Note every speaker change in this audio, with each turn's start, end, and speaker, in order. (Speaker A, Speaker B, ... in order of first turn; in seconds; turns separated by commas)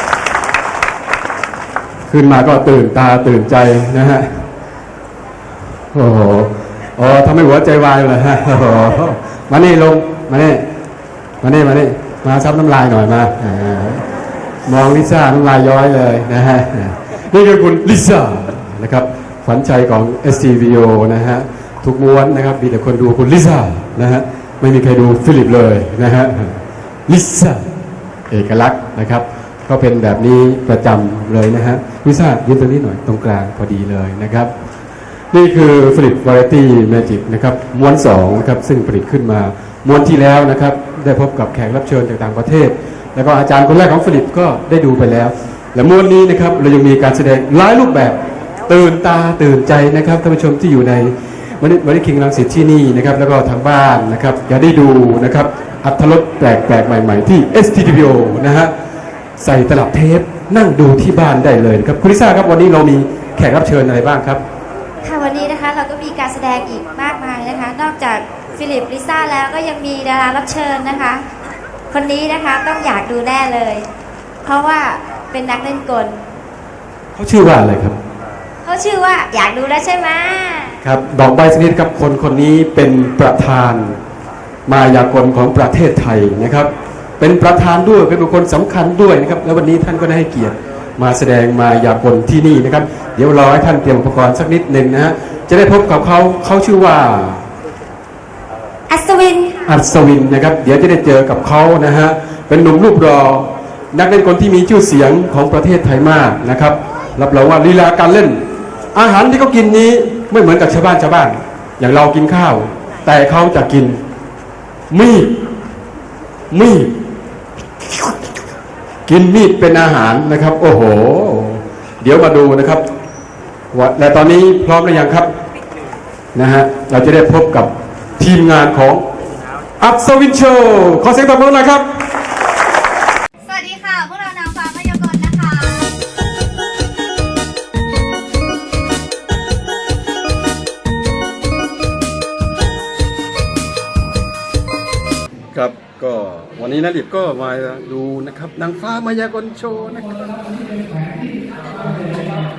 Speaker A: 2.1-4.4, Speaker A: 5.9-10.7, Speaker A: 11.4-14.0, Speaker A: 14.7-27.7, Speaker A: 28.3-34.5, Speaker A: 35.3-58.7, Speaker A: 59.4-64.4, Speaker B: 65.0-71.2, Speaker B: 71.9-73.9, Speaker B: 74.4-76.2, Speaker A: 77.2-78.0, Speaker B: 78.6-80.8, Speaker A: 80.8-84.0, Speaker A: 84.7-97.5, Speaker B: 98.9-99.6, Speaker A: 99.7-108.4, Speaker A: 108.9-114.0, Speaker A: 114.9-115.4, Speaker A: 116.5-117.0, Speaker A: 119.1-122.8, Speaker A: 123.7-125.3, Speaker A: 126.3-129.1, Speaker A: 129.8-131.9, Speaker C: 133.4-135.9, Speaker A: 145.5-150.3